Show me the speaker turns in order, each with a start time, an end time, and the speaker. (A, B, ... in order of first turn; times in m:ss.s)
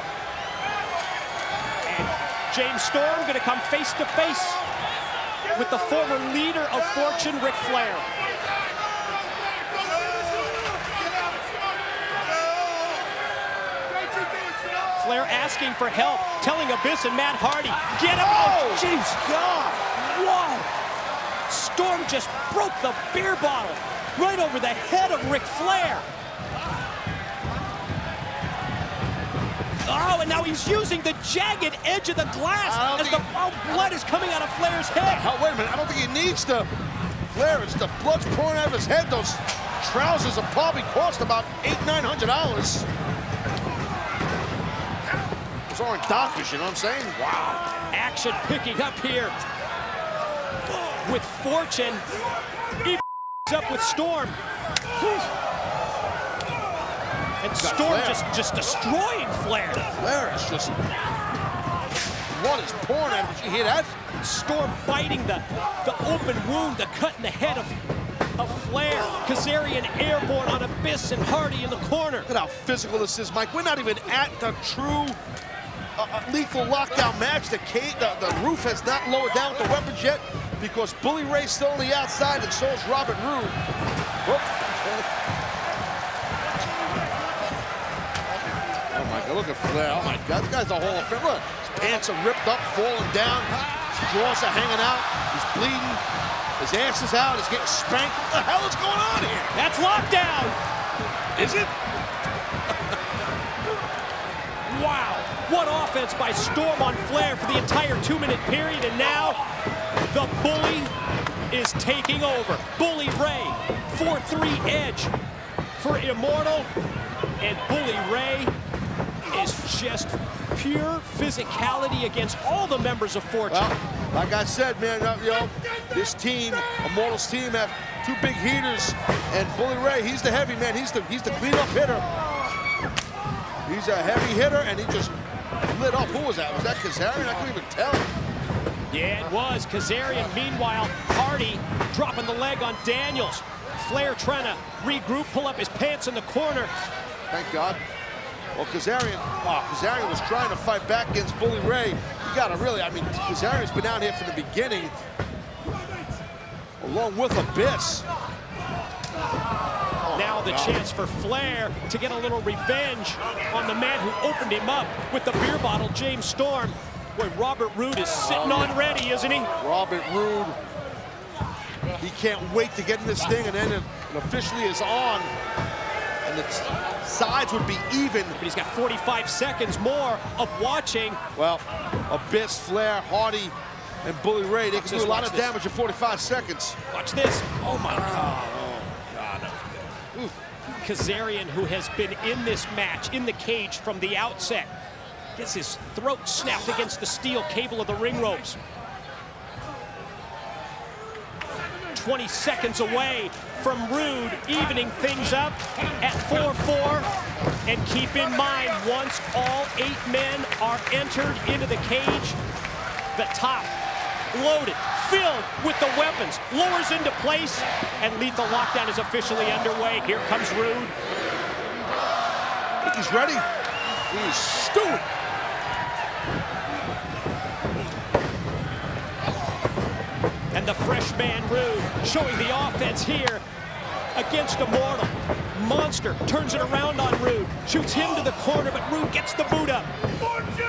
0:01.8-0:04.6 A
0:05.5-0:08.0 A
0:15.0-0:19.2 A
0:18.1-0:19.9 B
0:19.9-0:20.7 A
0:21.5-0:26.0 A
0:29.8-0:35.3 A
0:32.6-0:33.3 B
0:34.9-0:36.7 B
0:37.3-0:42.9 B
0:45.7-0:47.3 B
0:47.4-0:49.3 A
0:51.0-0:52.0 A
0:52.8-0:54.4 A
0:57.4-0:59.9 A
0:57.6-0:58.2 B
0:59.9-1:00.8 B
1:02.3-1:03.9 B
1:04.2-1:07.7 A
1:08.4-1:12.3 A
1:12.3-1:15.2 B
1:16.0-1:23.6 B
1:24.2-1:25.1 B
1:28.9-1:36.0 B
1:36.6-1:39.5 B
1:39.5-1:40.6 A
1:41.3-1:41.7 B
1:44.7-1:49.4 A
1:50.1-1:50.9 A
1:51.5-1:55.1 A
1:55.8-1:56.7 A
1:57.4-1:58.5 A
1:59.3-2:03.7 A
2:03.5-2:12.0 B
2:13.6-2:15.1 B
2:15.7-2:18.1 B
2:18.9-2:26.7 A
2:27.3-2:27.8 B
2:28.5-2:35.0 B
2:36.8-2:38.0 B
2:40.0-2:40.8 B
2:40.1-2:49.5 A
2:48.2-2:48.8 B
2:49.6-2:50.6 B
2:52.0-2:55.3 B
2:56.2-2:58.4 B
2:58.4-3:01.2 A
3:01.3-3:06.8 B
3:04.7-3:05.5 A
3:06.9-3:07.5 A
3:07.6-3:10.3 B
3:10.8-3:14.7 A
3:15.4-3:18.6 A
3:21.9-3:27.1 A
3:27.6-3:32.4 A
3:33.1-3:33.7 A
3:34.3-3:40.9 A
3:42.8-3:43.4 B
3:44.1-3:45.0 B
3:50.5-3:53.4 A
3:54.1-3:59.9 A